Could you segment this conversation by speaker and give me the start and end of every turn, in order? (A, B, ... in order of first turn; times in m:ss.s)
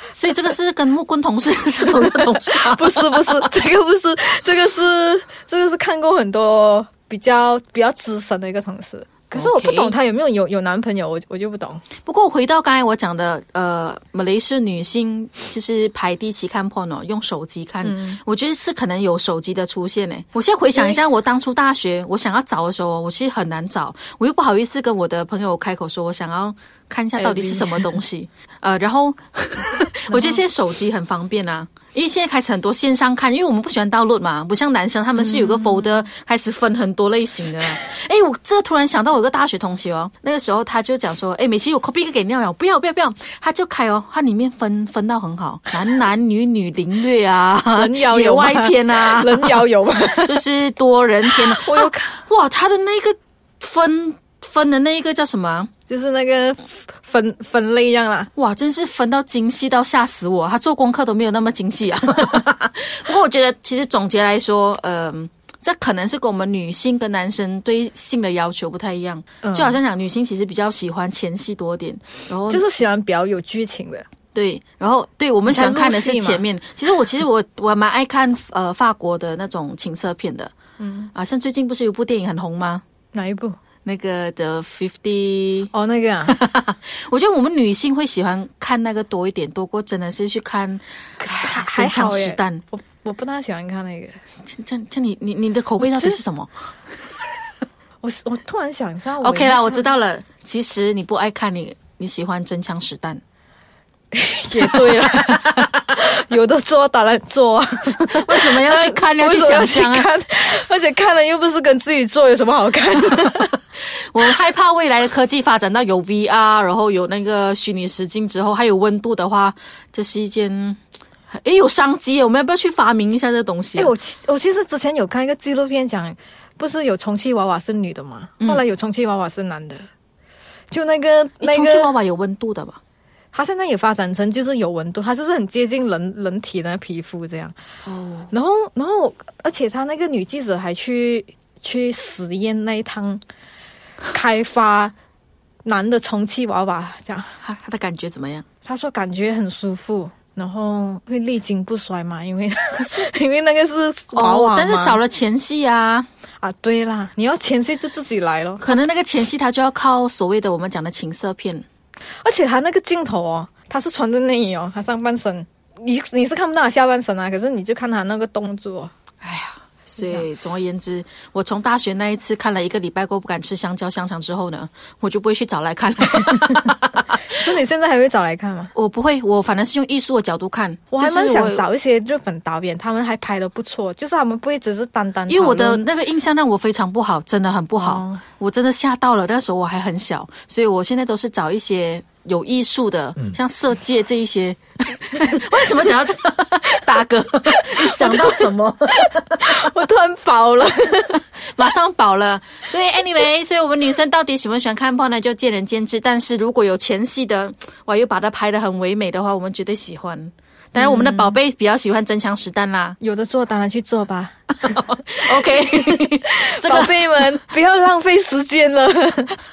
0:00.1-0:03.4 A
0:01.8-0:11.8 B
0:09.3-0:09.9 A
0:12.0-0:49.6 A
0:17.8-0:18.2 B
0:20.7-0:21.0 B
0:27.2-0:28.0 B
0:30.1-0:30.4 B
0:35.2-0:36.0 B
0:47.7-0:50.4 B
0:50.2-0:55.7 A
0:51.3-0:52.2 B
0:55.9-0:58.3 B
0:58.4-1:12.6 A
1:09.4-1:09.8 B
1:12.5-1:14.0 B
1:14.3-1:20.5 A
1:15.5-1:16.4 B
1:20.8-1:21.1 B
1:21.1-1:22.8 A
1:23.1-1:23.5 B
1:23.8-1:25.7 A
1:25.7-1:26.4 B
1:26.2-1:32.6 A
1:31.2-1:34.1 B
1:34.5-1:36.5 A
1:35.8-1:36.2 B
1:38.0-1:39.9 B
1:39.2-1:43.2 A
1:44.1-1:53.6 B
1:44.6-1:45.8 A
1:48.0-1:50.1 A
1:54.1-2:00.8 A
2:01.3-2:03.9 A
2:03.7-2:09.8 B
2:10.7-2:11.9 B
2:11.4-2:12.8 A
2:13.3-2:17.5 B
2:17.8-2:18.3 A
2:18.3-2:23.2 B
2:24.1-2:24.9 B
2:25.6-2:27.3 B
2:27.4-2:28.4 A
2:28.6-2:35.0 B
2:32.8-2:33.1 A
2:34.1-2:36.1 A
2:36.4-2:38.6 B
2:38.6-2:41.6 A
2:42.2-2:48.9 B
2:49.2-2:57.1 A
2:50.0-2:50.2 B
2:56.4-2:56.6 B
2:57.4-2:58.7 B
2:58.7-3:01.6 A
3:00.9-3:05.8 B
3:05.3-3:19.4 A
3:07.8-3:08.2 B
3:17.8-3:18.5 B
3:19.3-3:21.2 B
3:21.5-3:33.0 A
3:30.8-3:31.4 B
3:33.0-3:34.8 B
3:34.6-3:37.3 A
3:35.5-3:39.3 B